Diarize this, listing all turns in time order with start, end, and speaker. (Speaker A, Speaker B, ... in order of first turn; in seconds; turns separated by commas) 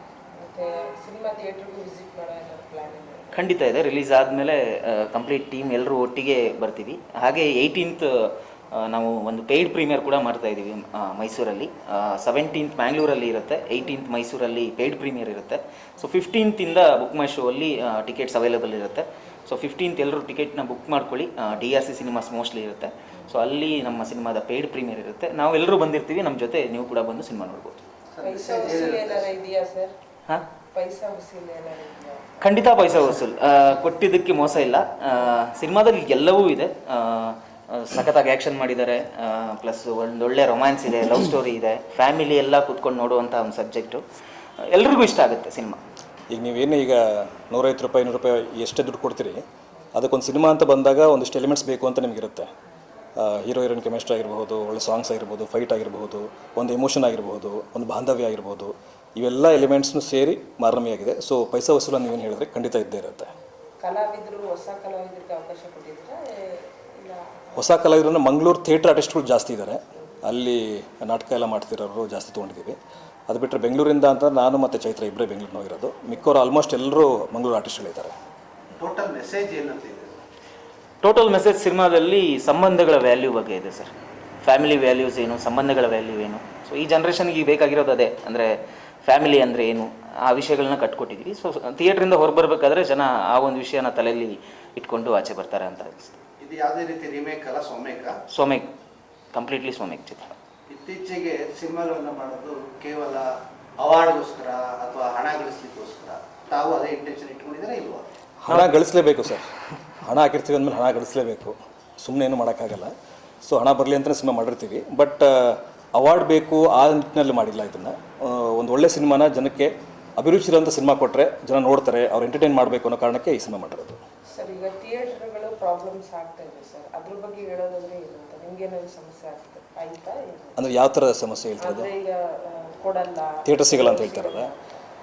Speaker A: 0.4-3.5, Speaker B: 3.3-27.8, Speaker C: 28.1-29.3, Speaker A: 28.2-29.9, Speaker A: 30.7-32.2, Speaker B: 32.4-44.0, Speaker B: 44.7-45.8, Speaker D: 46.3-49.4, Speaker D: 49.9-52.5, Speaker D: 53.2-63.3, Speaker A: 63.8-67.5, Speaker D: 67.5-72.8, Speaker D: 73.3-78.1, Speaker C: 78.8-80.2, Speaker B: 81.0-83.9, Speaker B: 84.4-88.5, Speaker B: 89.0-96.2, Speaker C: 96.4-98.1, Speaker B: 98.3-98.7, Speaker B: 99.3-100.3, Speaker C: 100.7-108.0, Speaker D: 108.4-109.5, Speaker D: 110.0-112.9, Speaker D: 113.4-124.0, Speaker A: 124.3-130.6, Speaker D: 130.6-131.9, Speaker A: 131.6-134.6, Speaker D: 133.4-134.5